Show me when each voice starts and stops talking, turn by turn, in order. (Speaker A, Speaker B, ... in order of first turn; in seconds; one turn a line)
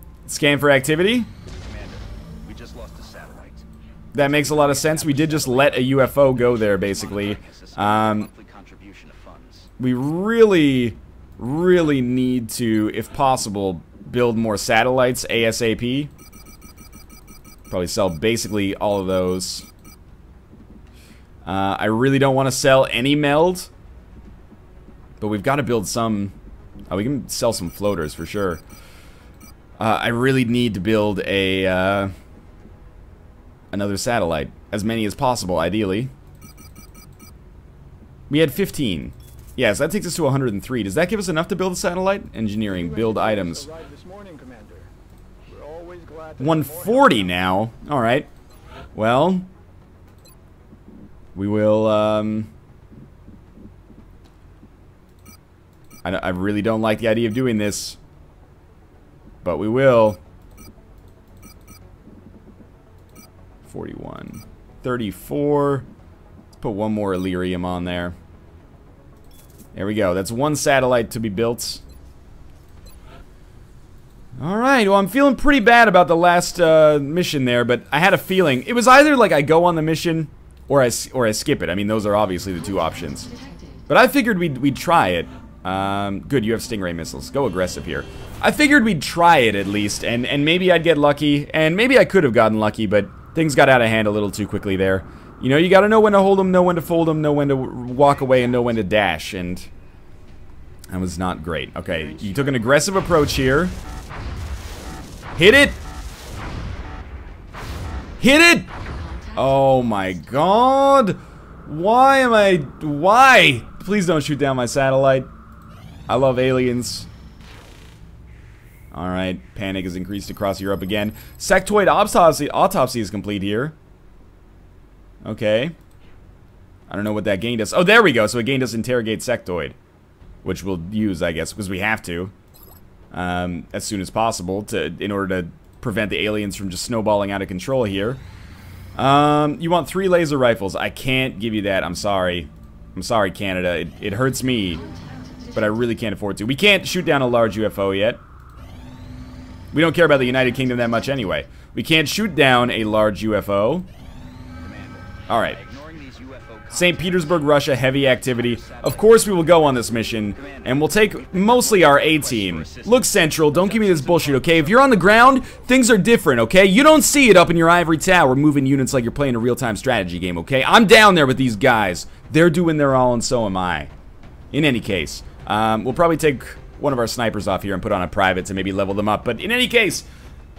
Speaker A: 0.2-1.3
Speaker B: 1.5-9.7
Speaker A: 4.1-8.3
Speaker A: 9.8-16.1
Speaker A: 17.7-19.7
Speaker A: 21.4-23.7
Speaker A: 25.2-26.4
Speaker A: 26.9-28.6
Speaker A: 29.8-32.1
Speaker A: 33.7-36.1
Speaker A: 38.3-43.7
Speaker C: 42.9-44.8
Speaker B: 44.4-44.8
Speaker C: 45.5-46.9
Speaker A: 46.4-48.3
Speaker A: 49.0-49.5
Speaker A: 51.4-52.5
Speaker A: 56.0-58.0
Speaker A: 59.4-60.2
Speaker A: 63.6-65.9
Speaker A: 66.6-68.2
Speaker A: 69.8-71.8
Speaker A: 74.4-83.3
Speaker C: 83.3-83.8
Speaker A: 83.9-99.7
Speaker A: 100.9-103.8
Speaker B: 101.9-102.9
Speaker A: 105.4-105.8
Speaker A: 108.2-108.7
Speaker C: 109.0-109.3
Speaker A: 109.3-115.3
Speaker A: 116.1-117.1
Speaker A: 118.9-123.8
Speaker A: 125.2-125.8
Speaker A: 126.9-129.8
Speaker A: 130.4-132.3
Speaker A: 133.1-138.2
Speaker A: 139.0-144.8
Speaker A: 145.5-148.2
Speaker A: 149.7-153.9
Speaker B: 154.6-165.2
Speaker A: 155.3-155.6
Speaker A: 156.7-173.9
Speaker A: 174.5-180.1